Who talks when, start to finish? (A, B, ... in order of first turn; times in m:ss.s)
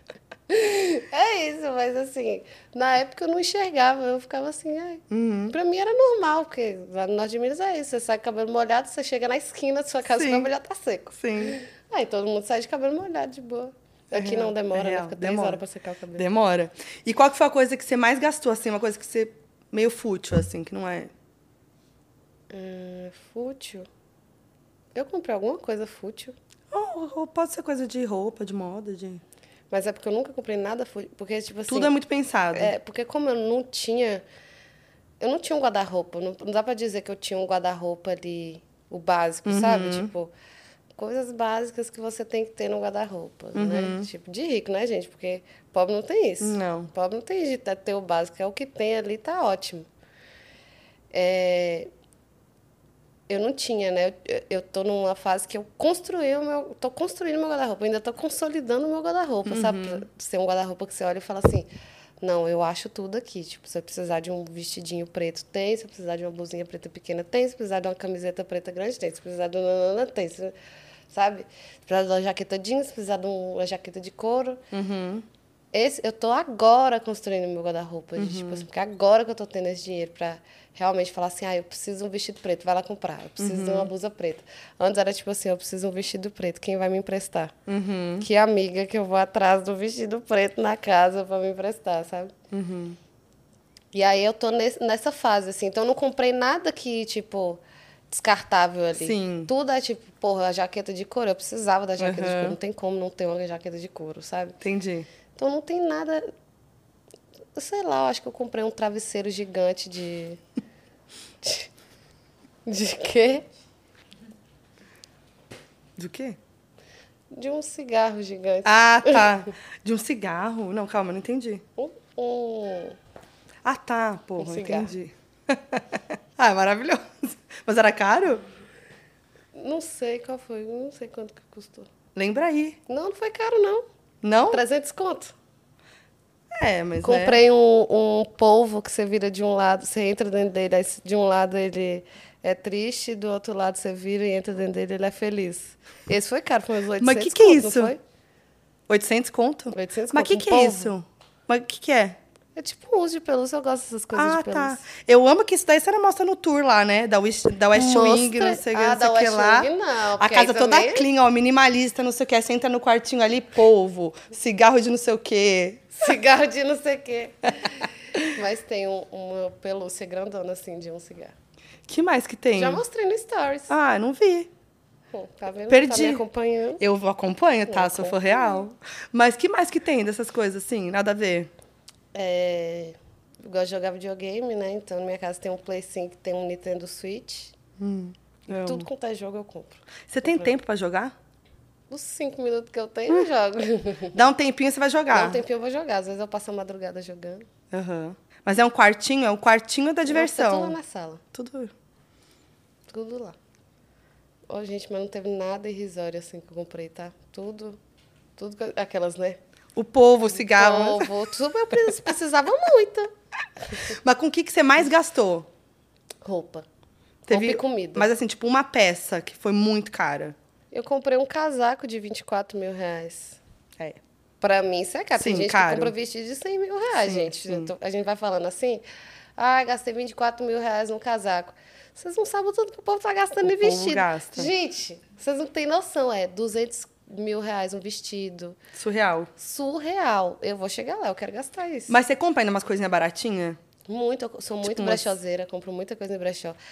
0:00.5-0:16.2 A
0:05.1-0:05.5 B
0:10.1-0:10.5 B
0:11.2-0:11.6 B
0:14.1-0:15.6 B
0:16.2-0:21.1 B
0:22.5-0:23.9 A
0:24.9-0:26.4 A
0:26.7-0:29.2 B
0:29.7-0:31.9 A
0:31.7-0:32.7 B
0:32.5-0:34.2 A
0:35.2-0:40.3 A
0:39.4-0:40.1 B
0:41.0-0:49.9 A
0:43.5-0:44.1 B
0:46.4-0:46.9 B
0:51.1-0:51.9 A
0:53.3-1:01.7 A
0:59.4-1:00.0 B
1:02.2-1:10.5 A
1:11.1-1:14.6 A
1:14.7-1:15.2 B
1:15.7-1:27.5 A
1:18.2-1:18.6 B
1:23.4-1:23.9 B
1:27.7-1:28.3 B
1:28.2-1:32.3 A
1:32.5-1:33.0 B
1:33.9-1:44.6 A
1:39.0-1:39.5 B
1:42.0-1:42.6 B
1:44.6-1:45.1 B
1:45.4-1:46.3 A
1:47.5-1:50.4 A
1:51.4-1:51.7 A
1:52.6-1:53.4 A
1:56.0-1:56.4 B
1:57.3-1:59.3 A
1:58.6-2:01.6 B
2:01.8-2:03.0 A
2:03.6-2:08.4 B
2:04.4-2:04.9 A
2:09.5-2:11.9 A
2:12.1-2:12.8 B
2:12.9-2:13.8 A
2:14.2-2:14.6 B
2:14.5-2:15.3 A
2:16.5-2:17.4 B
2:17.0-2:28.0 A
2:27.0-2:27.9 B
2:28.9-2:32.2 B
2:29.7-2:30.9 A
2:32.6-2:34.8 A
2:34.1-2:46.0 B
2:37.7-2:41.0 A
2:46.0-2:51.3 A
2:51.9-2:52.8 B
2:52.6-2:53.7 A
2:53.7-2:54.5 B
2:55.1-2:56.8 A
2:55.7-2:56.2 B
2:56.8-3:01.5 B
2:57.7-2:58.6 A
3:02.1-3:07.5 A
3:07.8-3:08.9 B
3:08.5-3:10.5 A
3:10.1-3:11.1 B
3:11.9-3:14.2 A
3:14.1-3:15.4 B
3:15.1-3:17.5 A
3:17.7-3:20.8 B
3:20.1-3:21.2 A
3:21.3-3:21.7 B
3:22.9-3:23.4 A
3:24.5-3:27.8 A
3:28.4-3:29.4 A
3:29.8-3:31.1 B
3:30.3-3:33.1 A
3:33.8-3:35.5 B
3:36.2-3:36.6 A
3:37.3-3:38.1 A
3:37.3-3:40.4 B
3:40.7-3:43.4 A
3:44.4-3:48.8 A
3:45.2-3:45.9 B
3:47.0-3:47.7 B
3:49.4-3:58.6 A
3:53.4-3:54.5 B
3:58.7-3:59.3 B
3:59.4-4:02.0 A
4:01.9-4:03.6 B
4:03.9-4:06.6 A
4:04.6-4:05.1 B